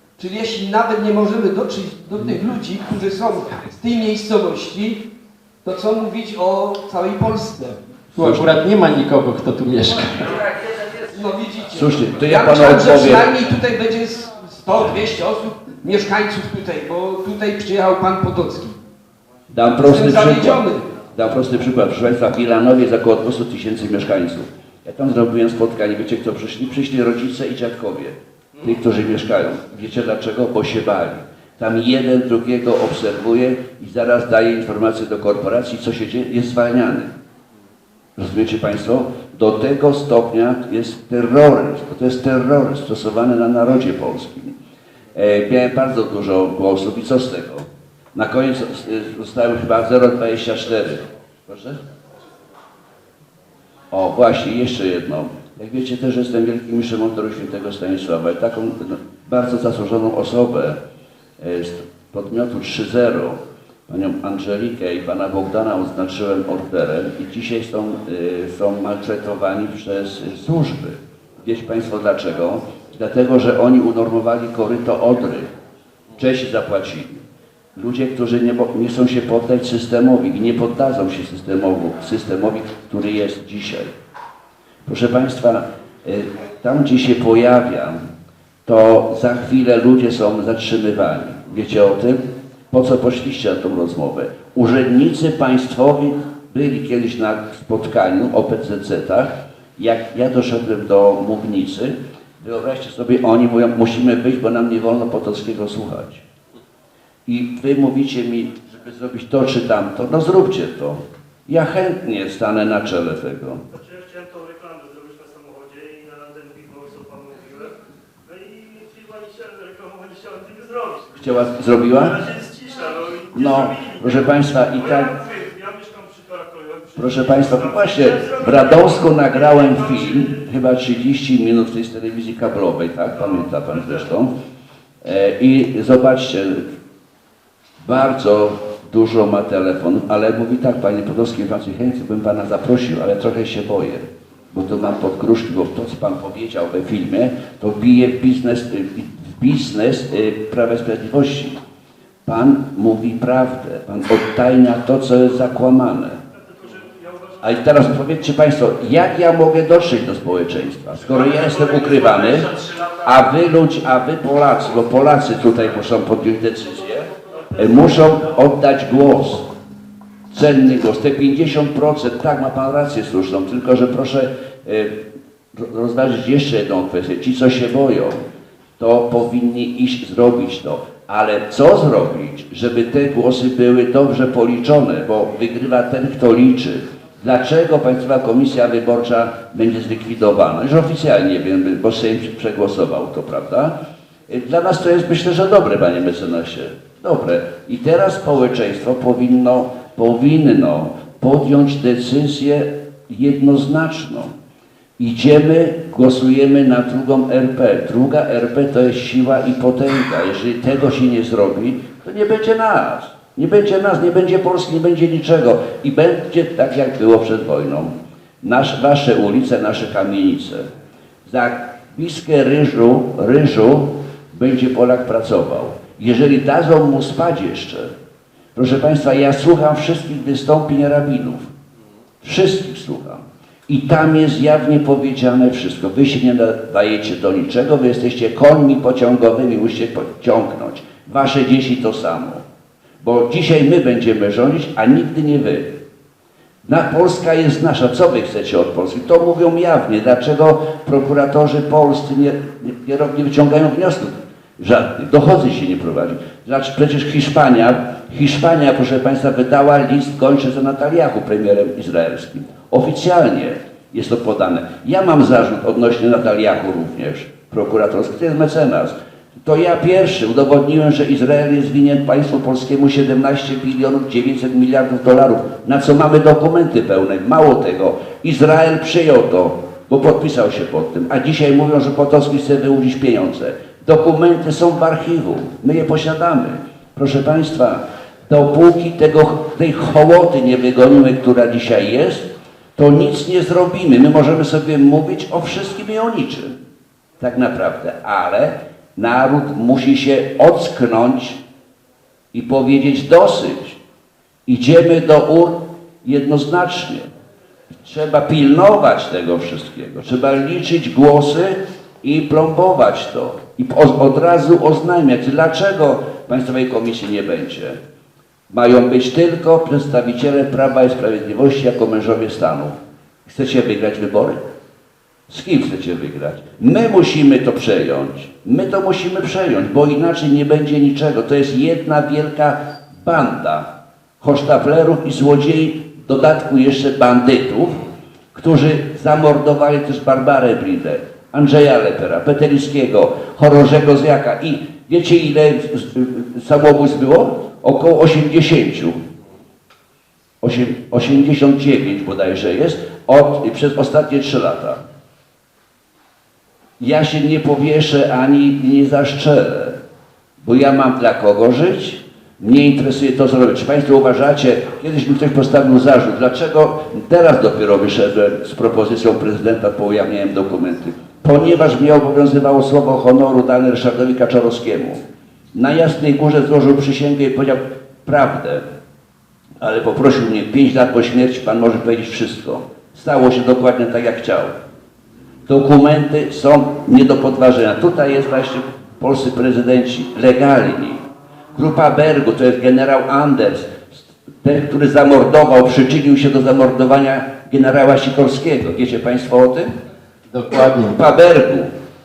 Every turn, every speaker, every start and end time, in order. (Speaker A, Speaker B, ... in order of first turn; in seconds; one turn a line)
Speaker A: 0.2-5.0
Speaker A: 5.6-7.8
Speaker B: 8.1-8.5
Speaker C: 8.1-10.3
Speaker A: 10.3-18.8
Speaker B: 11.7-13.3
Speaker B: 19.5-37.1
Speaker A: 19.8-20.9
Speaker B: 38.2-44.5
Speaker B: 45.1-51.8
Speaker B: 53.9-60.8
Speaker B: 61.4-75.5
Speaker B: 76.1-77.2
Speaker B: 77.8-83.9
Speaker B: 84.8-88.0
Speaker B: 88.7-106.2
Speaker B: 107.2-113.6
Speaker D: 113.7-130.4
Speaker B: 121.2-122.2
Speaker B: 123.3-125.1
Speaker B: 127.0-134.3
Speaker D: 133.2-134.0
Speaker B: 135.0-136.7
Speaker B: 137.8-151.6
Speaker B: 152.2-156.2
Speaker D: 156.3-157.7
Speaker B: 157.4-169.5
Speaker D: 161.2-163.0
Speaker D: 167.2-168.2
Speaker B: 170.3-175.0
Speaker B: 175.5-178.2
Speaker B: 178.8-204.3
Speaker B: 205.0-220.7
Speaker B: 221.2-227.9
Speaker B: 228.6-231.5
Speaker B: 232.2-242.4
Speaker B: 243.0-245.7
Speaker B: 246.6-296.6
Speaker B: 297.2-301.4
Speaker B: 302.3-303.8
Speaker B: 304.5-307.1
Speaker B: 307.8-317.8
Speaker B: 318.5-322.7
Speaker B: 323.2-324.4
Speaker B: 325.3-349.0
Speaker B: 350.4-354.8
Speaker B: 356.8-359.8
Speaker B: 360.4-375.0
Speaker B: 375.5-378.6
Speaker B: 379.6-384.5
Speaker B: 385.5-399.7
Speaker C: 400.3-401.0
Speaker B: 400.8-401.7